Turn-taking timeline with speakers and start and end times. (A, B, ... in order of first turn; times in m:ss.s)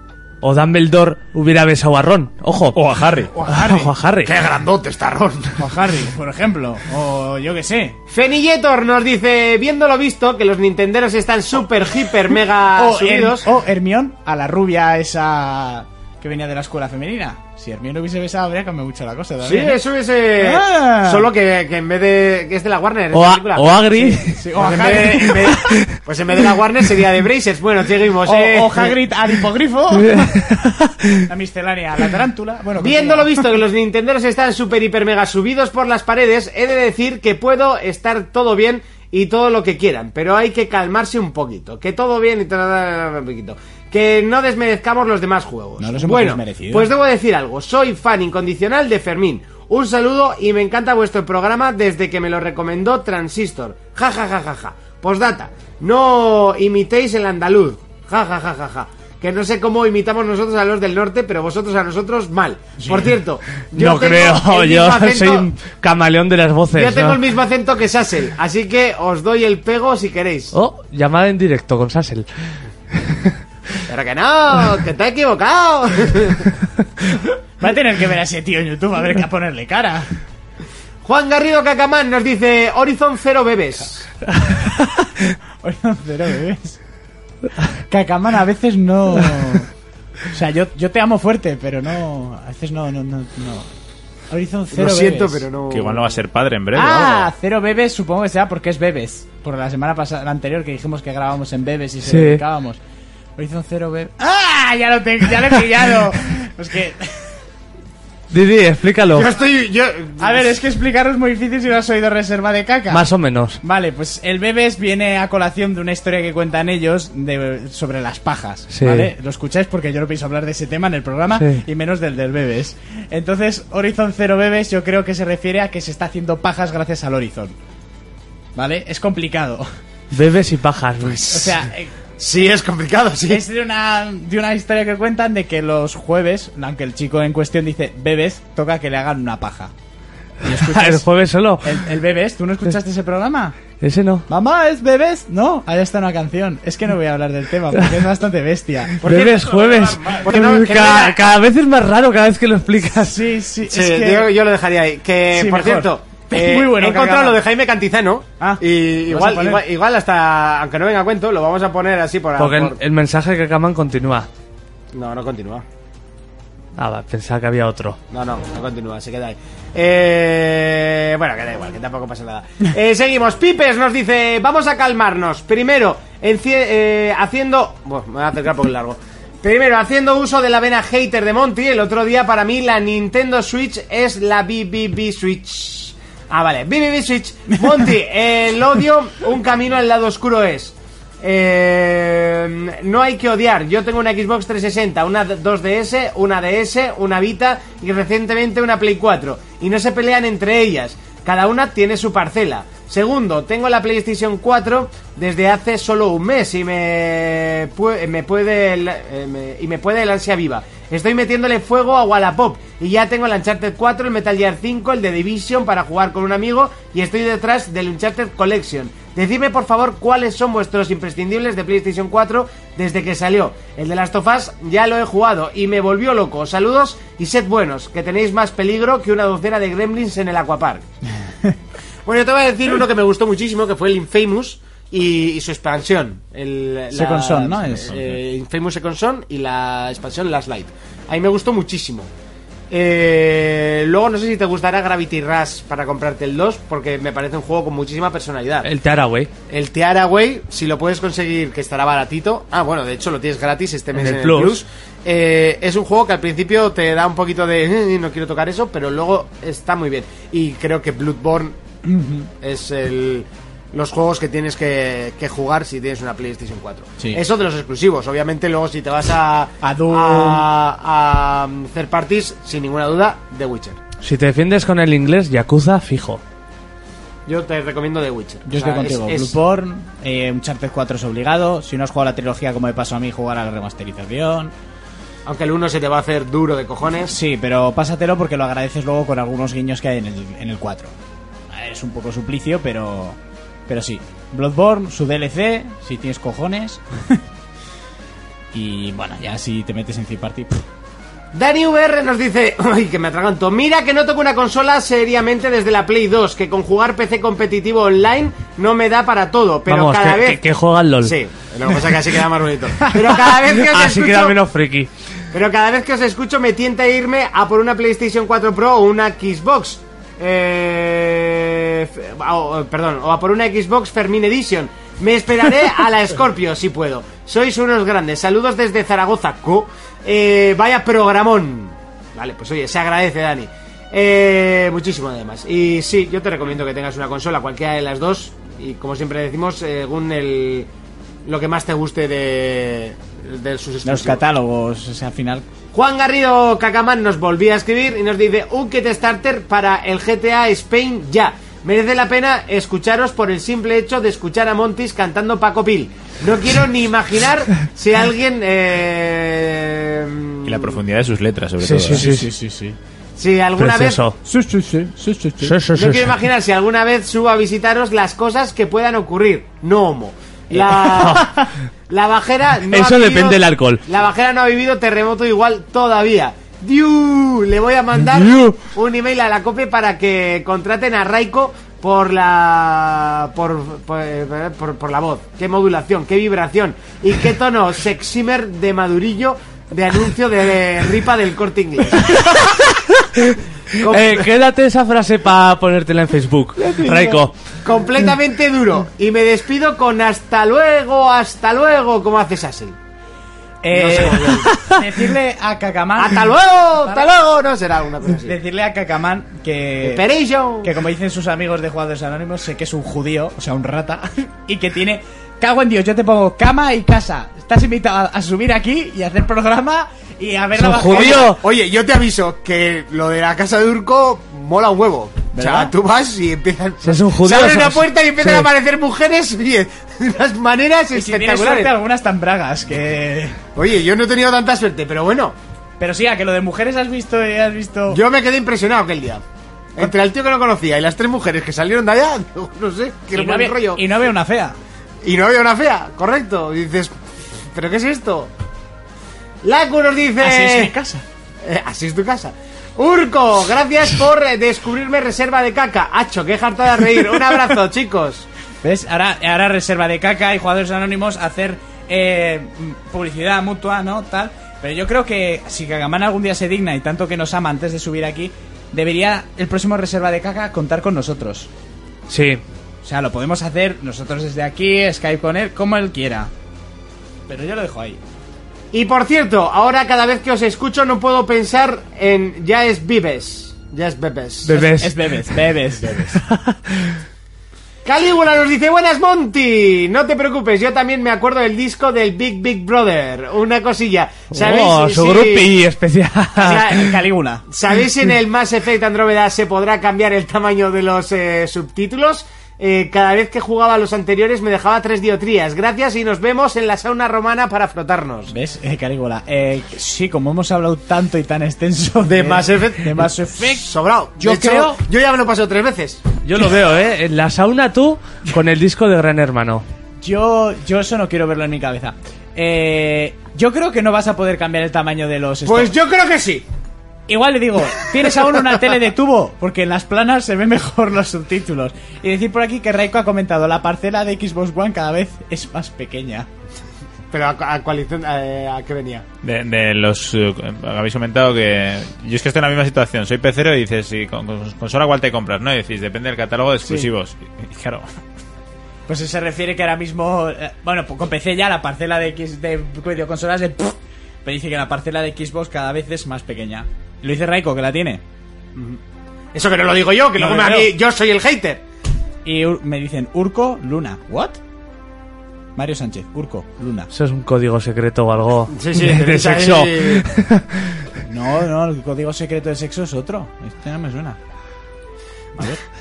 0:00.4-0:02.8 A
0:02.7-0:03.3 B
0:03.4-0:04.3 A
0:03.4-0:03.8 C
0:03.5-0:05.7 D
0:05.6-0:08.0 C
0:08.1-0:13.5 D
0:12.7-0:19.8 C
0:19.4-0:29.0 D
0:20.4-0:21.3 C
0:23.1-0:25.8 A
0:24.3-0:25.6 C
0:28.2-0:30.5 C
0:29.9-0:31.2 A
0:31.2-0:33.5 C
0:32.8-1:05.5 D
0:45.8-0:46.9 C
1:02.8-1:03.1 C
1:03.7-1:07.2 A
1:06.7-1:10.5 D
1:10.5-1:12.3 A
1:12.9-1:13.3 A
1:13.9-1:16.6 D
1:17.6-1:20.1 C
1:21.0-1:24.1 D
1:25.6-1:26.8 C
1:27.8-1:29.7 C
1:30.3-1:33.7 C
1:34.3-1:35.4 C
1:34.7-1:36.2 D
1:35.7-1:37.3 B
1:36.7-1:42.8 C
1:42.0-1:42.4 A
1:43.4-1:47.2 C
1:48.3-1:49.3 A
1:49.1-1:50.5 D
1:50.2-1:53.1 C
1:52.9-1:53.6 A
1:53.6-2:07.6 C
1:58.7-1:59.1 A
2:01.4-2:01.6 A
2:08.6-2:09.7 C
2:10.1-2:11.3 A
2:11.0-2:11.6 D
2:11.3-2:11.9 C
2:12.2-2:13.4 D
2:13.3-2:19.7 C
2:20.4-2:21.1 C
2:20.5-2:21.8 A
2:21.6-2:23.6 C
2:23.8-2:24.2 A
2:24.3-2:29.6 C
2:29.0-2:33.2 A
2:29.1-2:31.2 D
2:30.3-2:30.7 C
2:32.9-2:34.3 C
2:33.6-2:42.8 D
2:35.3-2:37.4 C
2:38.4-2:39.6 C
2:42.4-2:44.3 A
2:44.9-2:45.6 D
2:46.8-2:48.0 A
2:48.1-3:50.8 D
3:52.0-4:02.1 D
3:56.9-3:58.2 C
4:02.7-4:08.7 D
4:08.6-4:09.3 A
4:09.5-4:21.6 D
4:13.9-4:14.6 A
4:21.8-4:22.3 C
4:22.4-4:33.8 D
4:29.6-4:30.4 C
4:34.0-4:36.2 A
4:37.2-4:39.4 D
4:38.4-4:44.5 C
4:45.2-4:47.1 D
4:47.1-4:50.9 C
4:51.5-4:57.2 C
4:58.5-5:00.6 C
5:01.3-5:10.4 D
5:09.7-5:11.1 A
5:11.0-5:14.4 D
5:12.8-5:13.1 C
5:13.5-5:14.9 A
5:15.3-5:40.7 D
5:41.2-5:44.2 D
5:43.8-5:45.4 C
5:45.7-6:00.8 D
6:00.4-6:02.0 B
6:01.6-6:02.3 A
6:01.9-6:02.8 C
6:03.2-6:04.0 D
6:03.6-6:04.2 A
6:04.2-6:05.6 C
6:05.4-6:06.1 A
6:05.7-6:11.3 D
6:10.6-6:11.3 A
6:11.9-6:32.2 D
6:12.7-6:13.8 A
6:18.0-6:18.5 A
6:32.0-6:37.3 A
6:33.8-6:34.3 D
6:36.6-6:37.2 C
6:37.6-6:42.8 D
6:43.6-6:47.1 C
6:43.7-6:44.6 D
6:44.2-6:44.8 A
6:46.0-6:48.4 D
6:48.0-6:50.0 C
6:49.8-6:50.8 D
6:50.6-7:01.4 C
7:00.6-7:01.4 A
7:00.9-7:11.8 D
7:05.3-7:05.7 C
7:06.8-7:08.5 A
7:10.9-7:13.4 C
7:13.5-7:15.4 D
7:15.8-7:18.0 C
7:17.9-7:19.2 D
7:19.8-7:23.8 D
7:23.1-7:24.6 C
7:25.0-7:26.9 D
7:27.5-7:28.3 D
7:29.4-7:30.7 D
7:30.2-7:31.0 C
7:31.4-7:38.3 D
7:38.6-7:51.5 C
7:52.1-7:52.4 A
7:52.8-7:56.3 C
7:57.3-7:58.0 C
7:58.7-8:04.7 D
8:04.4-8:05.0 A
8:04.5-8:06.2 C
8:06.1-8:06.9 A
8:07.8-8:15.5 D
8:14.3-8:16.7 A
8:16.4-8:28.3 D
8:16.5-8:17.5 C
8:28.3-8:34.8 C
8:32.0-8:36.0 D
8:36.2-8:39.6 A
8:40.0-8:45.7 C
8:45.4-8:46.4 D
8:47.1-8:56.3 C
8:57.1-8:59.0 D
8:59.2-9:07.8 B
9:06.6-9:06.9 C
9:08.9-9:18.0 C
9:18.5-9:18.8 D
9:19.3-9:21.6 D
9:20.2-9:20.7 C
9:22.2-9:24.4 C
9:25.6-9:26.9 C
9:26.9-9:30.8 A
9:28.5-9:30.1 D
9:31.0-9:34.2 C